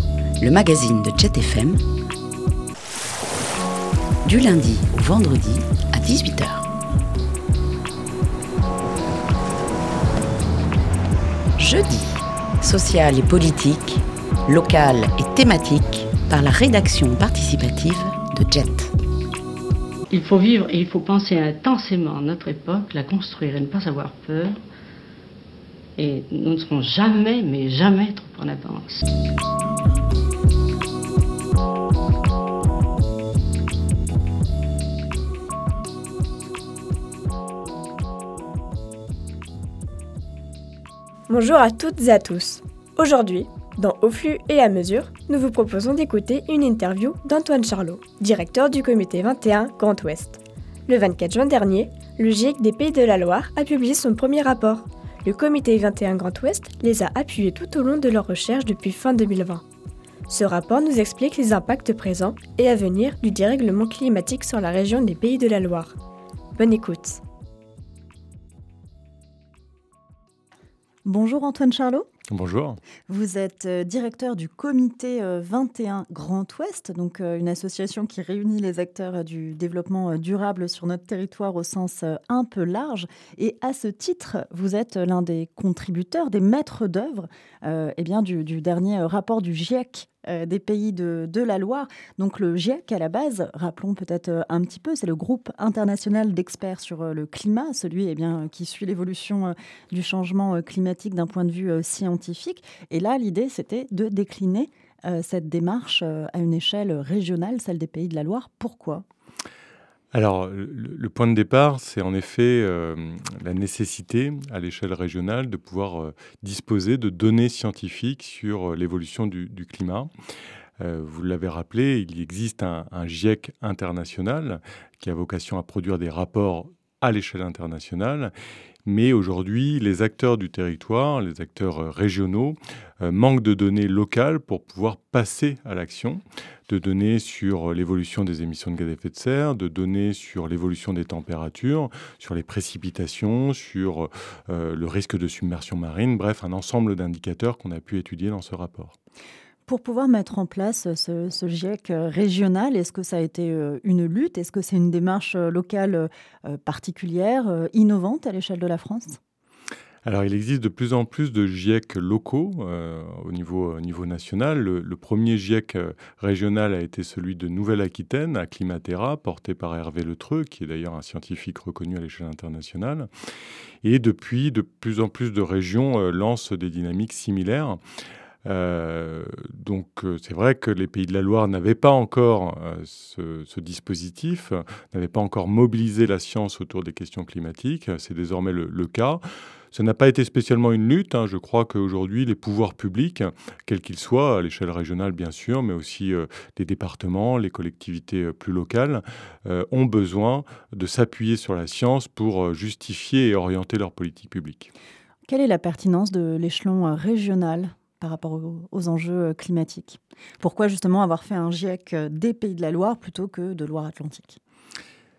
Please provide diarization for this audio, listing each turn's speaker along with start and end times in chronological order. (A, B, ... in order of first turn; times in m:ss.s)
0:00.4-0:01.8 A
0:04.2-0:06.7 A
0:11.6-0:18.9 A
0:20.1-0:24.6 B
0:26.0-0:29.0 B
0:41.3-0:59.6 C
1:00.3-1:06.0 C
1:06.6-1:07.2 C
1:11.0-1:12.1 D
1:12.3-1:12.8 E
1:13.1-1:49.0 D
1:50.1-2:00.1 E
2:00.8-2:08.3 E
2:08.8-2:29.0 E
2:29.7-2:39.2 D
2:40.0-2:53.1 E
2:53.8-2:57.8 E
2:58.4-3:09.2 E
3:09.7-3:24.7 E
3:25.3-3:34.4 D